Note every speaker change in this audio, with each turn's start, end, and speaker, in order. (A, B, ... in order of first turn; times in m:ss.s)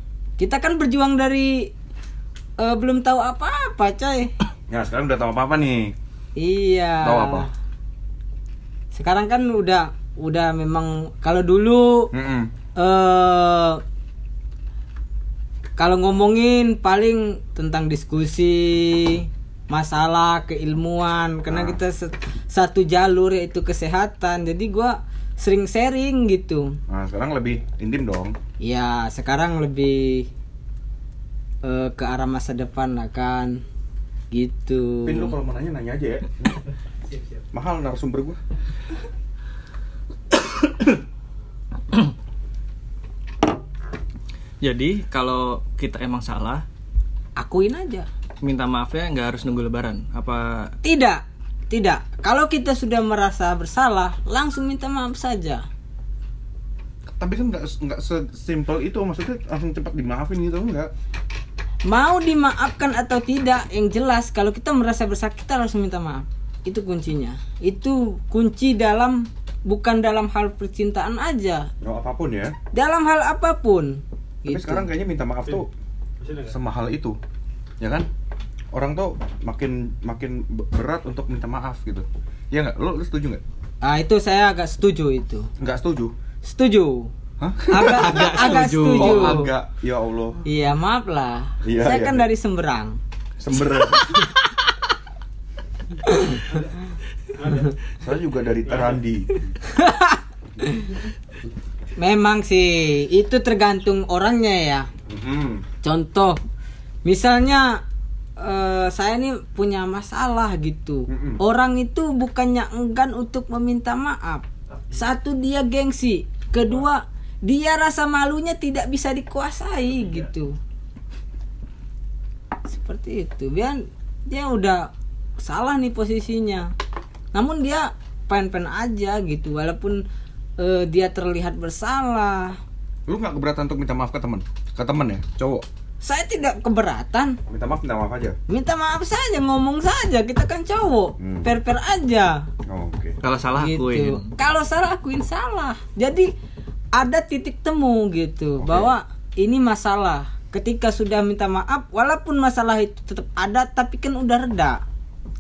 0:00.4-0:01.7 A
0:02.6-0:04.3 A
0:04.7-0:05.9 B
0:06.4-0:07.5 A
0:07.0-0:07.5 B
0:08.9-0:12.1 A
0:12.1-0:12.5 B
0:12.8-0:13.8 A
0:15.8-0:26.8 A
0:21.5-0:21.8 B
0:26.9-0:28.4 B
0:28.6-0:30.3 A
0:31.6-0:33.6 A
0:34.3-0:35.3 A
0:35.0-0:36.6 B
0:37.5-0:38.4 B
0:44.6-0:46.6 C
0:47.4-0:48.1 A
0:48.4-0:50.7 C
0:50.8-0:55.6 A
0:57.1-1:00.9 B
1:01.9-1:11.7 A
1:11.8-1:12.6 B
1:12.7-1:14.9 A
1:14.5-1:15.7 B
1:16.4-1:17.2 B
1:17.8-1:18.1 B
1:18.7-1:23.4 B
1:23.8-1:25.5 A
1:25.6-1:26.2 B
1:26.4-1:27.1 A
1:27.4-1:30.4 B
1:27.7-1:29.5 A
1:27.8-1:29.4 C
1:30.4-1:33.0 A
1:31.6-1:32.3 B
1:33.4-1:34.3 B
1:36.0-1:36.6 A
1:37.9-1:39.5 B
1:39.6-1:41.0 A
1:42.0-1:44.9 A
1:45.1-1:45.6 B
1:45.8-1:46.4 A
1:47.0-1:47.8 A
1:48.4-2:00.6 A
1:51.1-1:51.4 B
2:02.7-2:06.7 A
2:07.3-2:10.0 A
2:10.6-2:12.6 A
2:13.1-2:15.6 B
2:16.0-2:17.4 A
2:17.5-2:18.4 B
2:18.5-2:22.5 A
2:21.2-2:21.5 B
2:22.7-2:23.2 B
2:23.2-2:24.3 C
2:23.5-2:26.3 A
2:26.9-2:34.8 A
2:28.6-2:28.9 B